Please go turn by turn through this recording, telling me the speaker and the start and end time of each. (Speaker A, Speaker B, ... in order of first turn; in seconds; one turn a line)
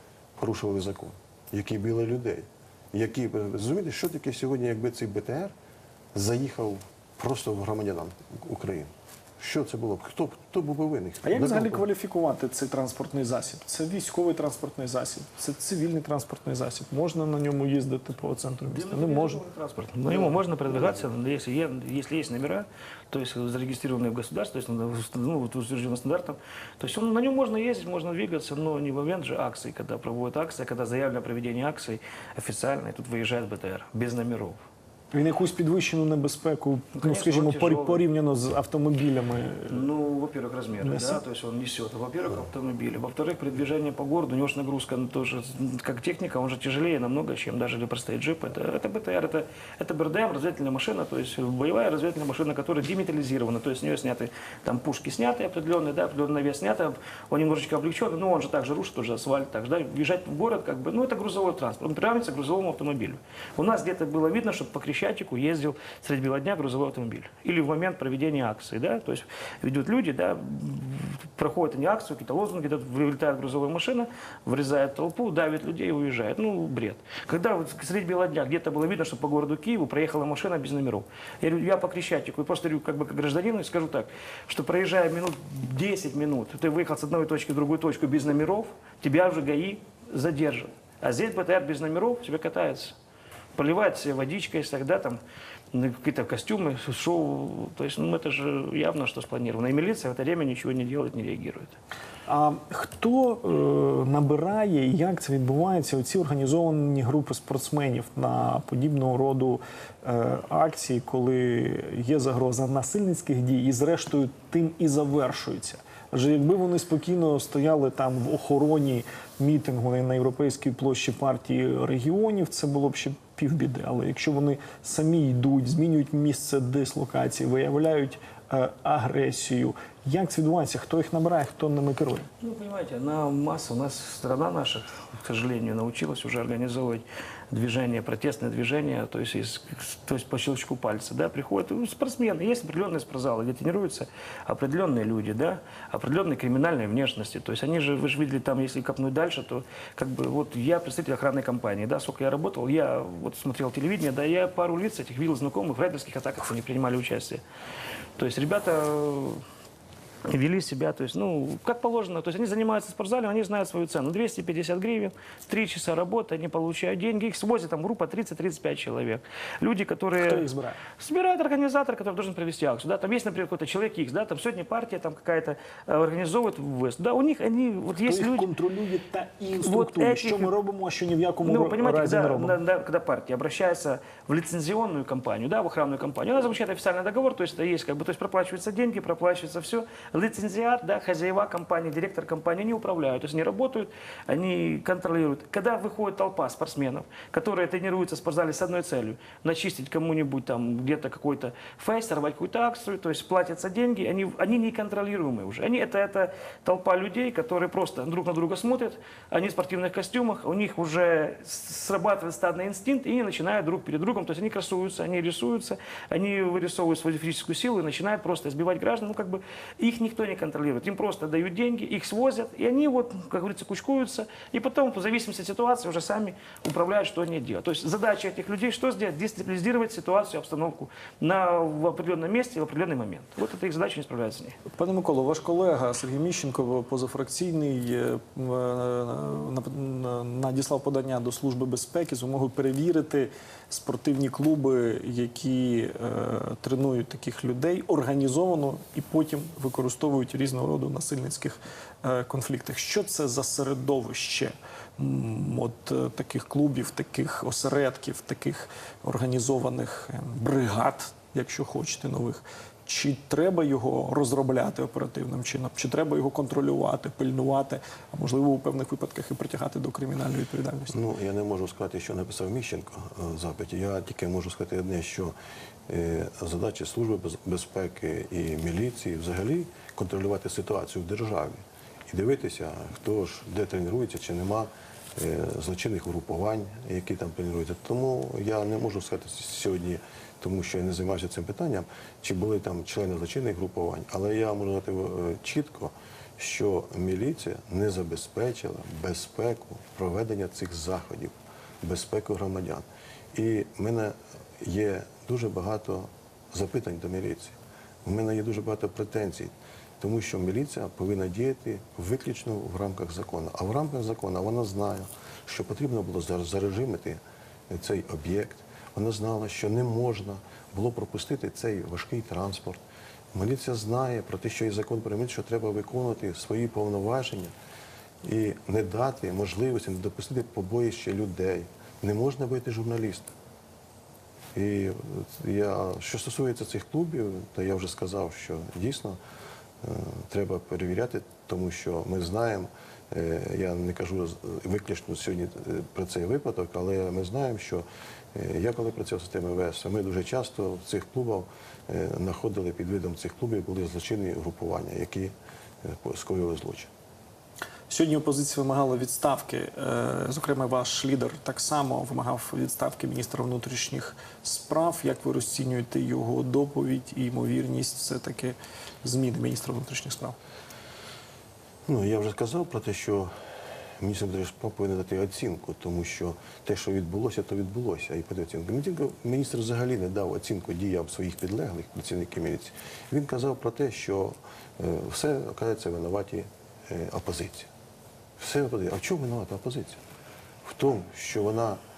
Speaker A: 0.4-5.5
Speaker A: 6.1-11.9
Speaker B: 11.2-19.4
Speaker C: 18.7-34.6
Speaker A: 20.7-21.0
Speaker B: 35.1-39.9
Speaker C: 37.0-38.0
Speaker C: 39.7-93.0
Speaker B: 40.8-41.2
Speaker C: 93.5-95.2
Speaker C: 95.7-101.8
Speaker B: 102.3-132.3
Speaker C: 132.4-157.4
Speaker C: 158.2-159.4
Speaker C: 160.2-170.4
Speaker B: 170.2-170.8
Speaker C: 171.0-178.5
Speaker B: 178.0-182.6
Speaker C: 179.6-180.5
Speaker C: 181.4-234.6
Speaker B: 234.7-271.0
Speaker A: 270.9-275.4
Speaker A: 275.9-322.8
Speaker A: 323.3-327.5
Speaker A: 328.2-333.3
Speaker A: 334.5-339.2
Speaker A: 339.8-356.9
Speaker B: 357.9-370.4
Speaker A: 371.9-373.3
Speaker A: 374.0-387.7
Speaker A: 388.4-390.0
Speaker A: 390.6-391.8